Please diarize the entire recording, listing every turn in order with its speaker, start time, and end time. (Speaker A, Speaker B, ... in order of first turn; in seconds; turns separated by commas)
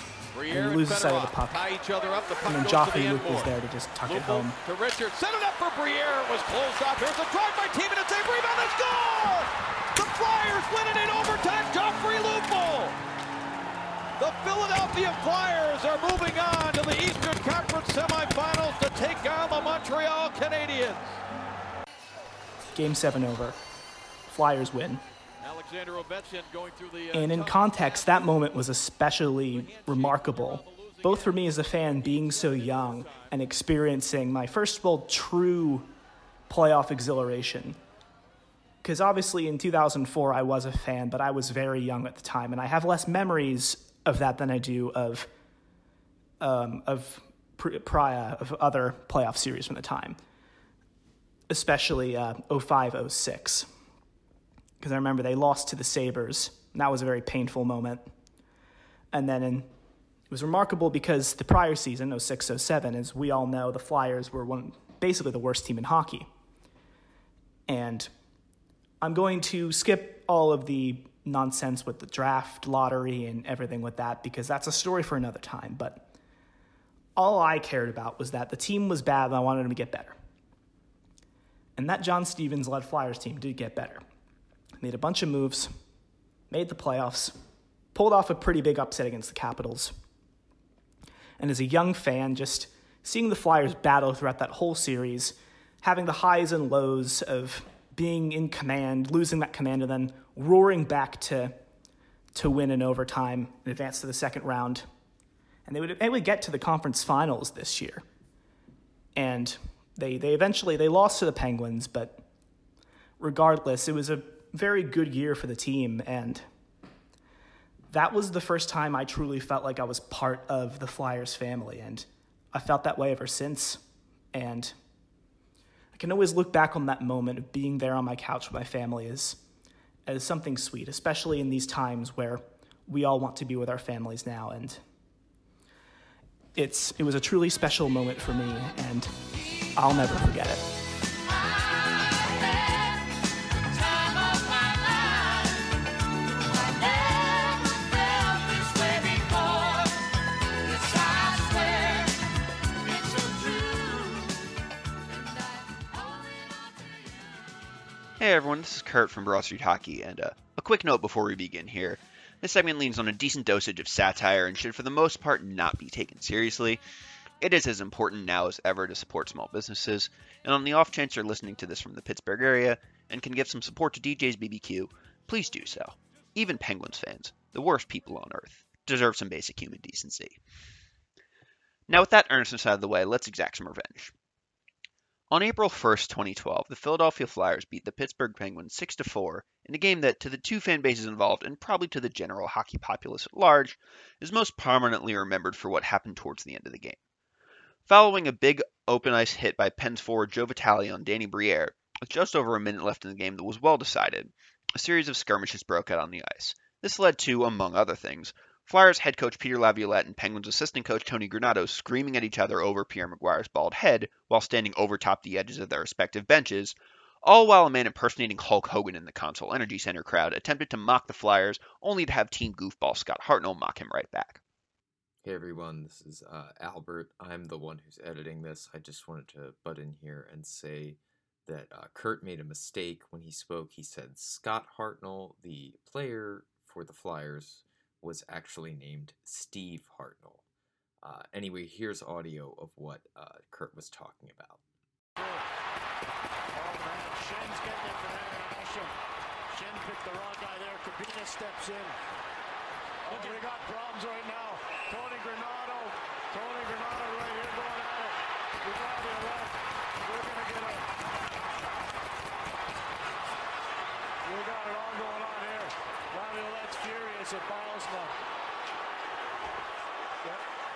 Speaker A: 0.3-13.0, Speaker B: 0.5-1.7, Speaker B: 2.5-4.6, Speaker A: 14.2-21.2, Speaker B: 22.8-23.6, Speaker B: 24.3-25.0, Speaker A: 25.4-28.5, Speaker B: 27.1-35.9, Speaker A: 29.6-31.3, Speaker A: 32.1-33.3, Speaker B: 36.5-37.8, Speaker B: 38.8-45.3, Speaker B: 46.4-50.2, Speaker B: 51.5-53.7, Speaker B: 54.8-58.1, Speaker B: 59.1-59.7, Speaker B: 60.3-66.3, Speaker B: 67.7-68.1, Speaker B: 69.0-76.1, Speaker B: 77.2-80.2, Speaker B: 81.8-84.0, Speaker B: 84.8-85.8, Speaker B: 86.5-87.4, Speaker B: 87.9-90.0, Speaker B: 91.4-101.6, Speaker B: 102.3-104.9, Speaker B: 105.7-108.0, Speaker B: 109.2-112.2, Speaker B: 113.2-116.5, Speaker B: 117.9-123.8, Speaker B: 124.3-124.7, Speaker B: 125.9-129.4, Speaker B: 130.1-134.8, Speaker B: 136.6-139.2, Speaker B: 139.8-140.7, Speaker C: 158.2-166.8, Speaker C: 167.4-180.4, Speaker C: 181.9-184.1, Speaker C: 185.3-197.0, Speaker C: 197.9-224.4, Speaker D: 225.2-240.4, Speaker D: 241.0-244.6, Speaker E: 246.6-248.9, Speaker E: 249.6-252.0, Speaker E: 253.1-259.5, Speaker E: 260.0-260.8, Speaker E: 264.3-268.1